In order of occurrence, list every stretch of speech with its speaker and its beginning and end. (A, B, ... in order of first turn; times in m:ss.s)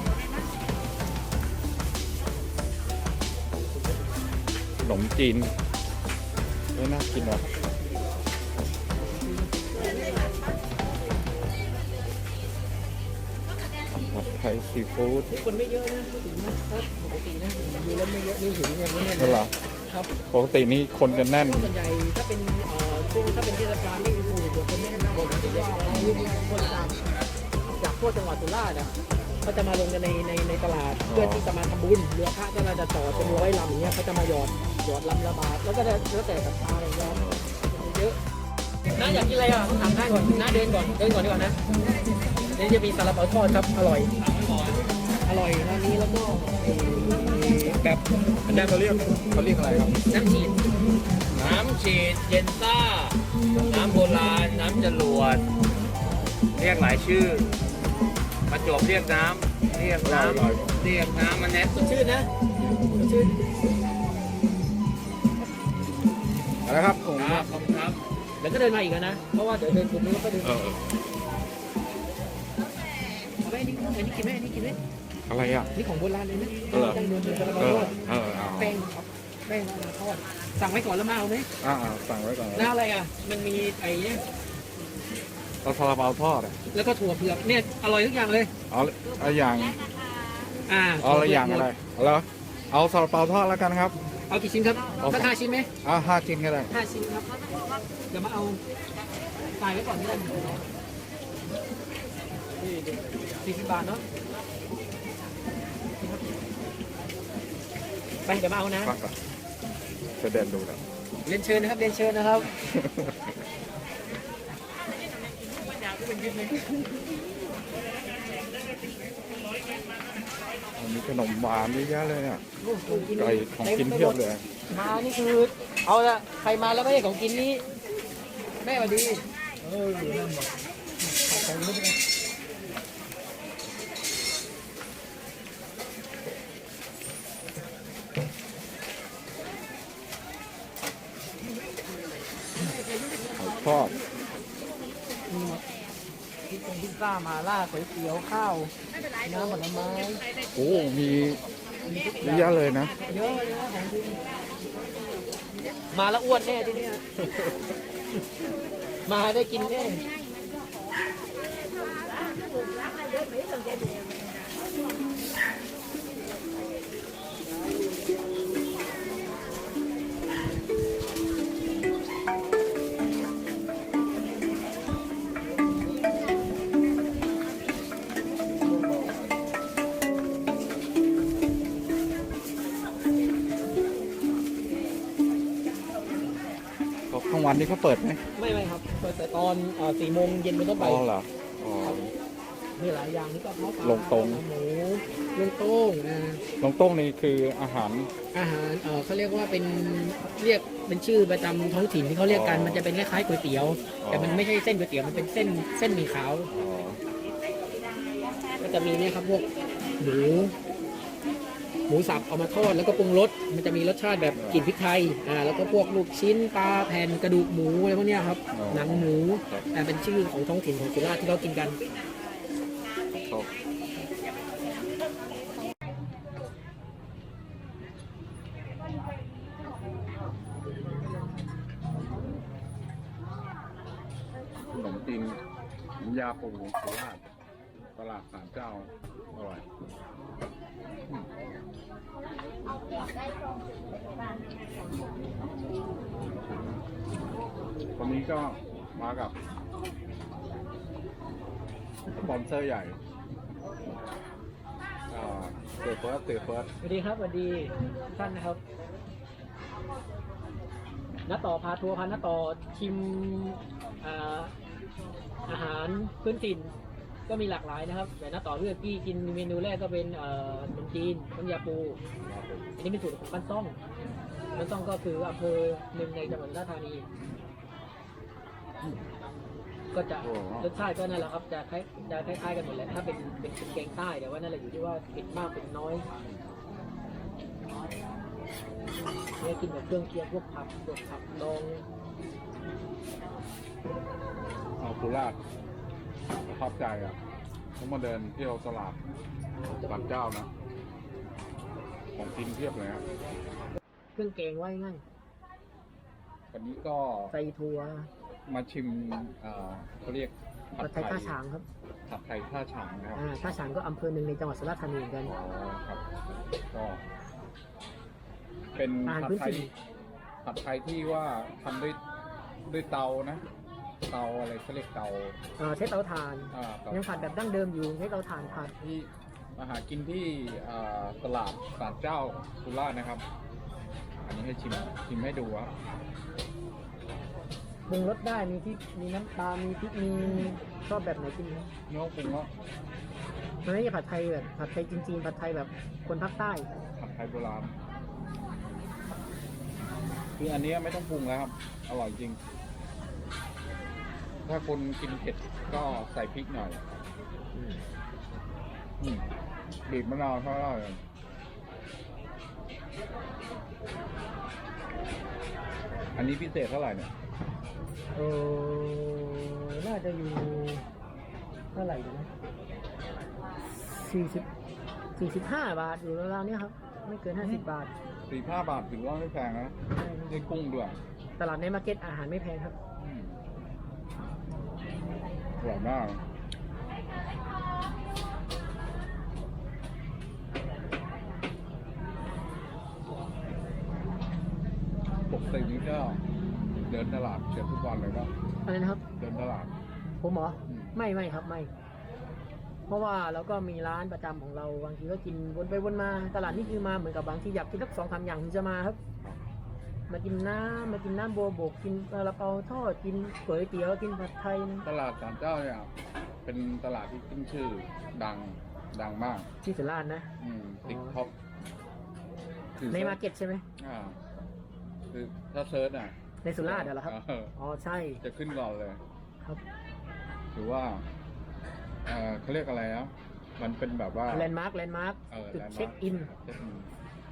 0:04.8-0:05.5 A
0:06.7-0:07.4 A
0:07.2-0:08.0 B
0:09.1-0:10.2 B
0:13.9-0:15.3 A
0:15.3-0:20.1 B
0:19.2-0:19.5 A
0:20.3-0:21.7 A
0:21.1-0:27.0 B
0:25.9-0:26.3 A
0:27.8-0:28.9 B
0:29.4-0:38.2 B
0:31.1-0:31.5 A
0:33.1-0:33.6 A
0:37.1-0:37.6 A
0:38.9-0:41.6 B
0:42.4-0:44.1 B
0:44.2-0:44.8 C
0:45.2-0:49.0 B
0:49.3-0:49.9 A
0:50.0-0:50.6 B
0:51.3-0:53.2 C
0:53.7-0:55.4 C
0:56.5-0:57.5 C
0:58.5-1:01.8 C
1:00.0-1:00.7 A
1:01.7-1:02.3 B
1:03.0-1:03.4 B
1:06.6-1:07.5 A
1:07.2-1:08.0 C
1:08.4-1:10.7 B
1:10.4-1:10.8 A
1:13.4-1:14.8 B
1:15.3-1:15.7 A
1:15.7-1:18.0 B
1:16.7-1:17.0 A
1:17.6-1:18.8 A
1:18.5-1:21.5 B
1:21.6-1:22.7 A
1:22.6-1:24.2 B
1:25.6-1:26.6 A
1:26.7-1:28.5 B
1:28.7-1:29.8 A
1:30.7-1:31.7 B
1:31.0-1:34.0 A
1:34.3-1:35.7 B
1:35.0-1:36.7 A
1:36.7-1:37.3 B
1:38.1-1:38.6 B
1:39.6-1:40.6 B
1:43.3-1:44.0 B
1:48.2-1:49.0 B
1:48.8-1:49.1 A
1:50.2-1:50.8 A
1:51.2-1:52.5 B
1:52.5-1:53.3 A
2:00.7-2:04.4 A
2:02.6-2:07.6 B
2:08.6-2:10.5 B
2:11.0-2:12.0 B
2:22.7-2:23.2 B
2:23.4-2:24.0 A
2:25.3-2:25.6 B
2:26.5-2:30.2 B
2:30.5-2:31.4 A
2:31.8-2:34.2 B
2:32.2-2:32.9 A
2:35.9-2:37.2 B
2:39.0-2:40.0 B
3:07.1-3:08.2 A
3:08.3-3:11.0 B
3:10.8-3:12.1 A
3:12.8-3:16.4 B
3:13.8-3:14.4 A
3:16.6-3:18.1 A
3:18.3-3:26.5 B
3:22.2-3:22.9 A
3:24.0-3:24.4 A
3:26.5-3:27.0 A
3:28.6-3:29.5 B
3:30.0-3:30.5 B
3:31.9-3:41.8 B
3:34.3-3:34.7 A
3:38.5-3:39.7 A
3:43.1-3:43.5 A
3:54.7-3:55.4 A
3:56.0-3:57.2 A
3:58.0-3:59.6 A
4:08.0-4:09.4 A
4:12.1-4:13.0 A
4:15.1-4:16.7 A
4:16.8-4:18.6 B
4:21.3-4:24.5 B
4:25.5-4:26.7 B
4:27.3-4:32.0 B
4:32.2-4:32.7 A
4:32.8-4:33.8 B
4:34.5-4:37.1 B
4:39.9-4:46.0 B
4:40.2-4:40.7 A
4:49.4-4:51.8 B
4:54.8-4:55.4 A
4:56.4-4:57.2 A
4:57.8-4:59.0 A
4:59.8-5:00.5 A
5:02.2-5:03.0 A
5:04.1-5:05.0 B
5:06.5-5:07.3 A
5:07.3-5:08.1 B
5:08.5-5:11.3 A
5:10.8-5:11.6 B
5:12.1-5:13.2 A
5:13.1-5:15.3 B
5:15.2-5:16.0 A
5:16.7-5:17.0 A
5:18.8-5:19.7 A
5:19.0-5:19.7 B
5:20.4-5:22.0 A
5:22.6-5:23.4 A
5:24.1-5:25.4 A
5:25.6-5:28.7 B
5:26.5-5:27.3 A
5:28.3-5:33.2 A
5:34.2-5:35.7 A
5:37.9-5:41.7 B
5:41.9-5:42.5 A
5:43.6-5:46.7 B
5:47.0-5:47.7 A
5:50.4-5:52.4 A
5:54.4-5:56.8 A
5:57.5-5:57.8 B
5:59.0-5:59.2 A
5:59.8-6:01.0 A
6:06.2-6:07.1 A
6:08.1-6:10.8 B
6:11.7-6:12.3 B
6:13.7-6:14.5 B
6:15.2-6:17.9 B
6:17.4-6:17.6 A
6:18.3-6:19.7 A
6:19.9-6:20.5 B
6:20.3-6:21.0 A
6:21.4-6:22.7 B
6:23.0-6:23.4 A
6:25.6-6:26.2 A
6:35.3-6:36.2 A
6:36.9-6:38.3 A
6:38.6-6:39.0 B
6:39.2-6:39.7 A
6:40.2-6:41.7 B
6:40.7-6:40.9 A
6:42.9-6:49.0 B
6:46.4-6:46.9 A
6:50.1-6:54.8 B
6:54.8-6:55.9 A
6:56.4-6:59.5 A
6:59.6-7:00.3 B
7:00.4-7:01.3 A
7:00.8-7:01.2 B
7:02.8-7:03.2 A
7:02.9-7:03.6 B
7:03.8-7:04.2 A
7:05.1-7:07.5 A
7:06.4-7:08.2 B
7:08.2-7:09.0 A
7:10.5-7:11.0 A
7:12.0-7:14.5 A
7:14.3-7:16.3 B
7:15.3-7:16.9 A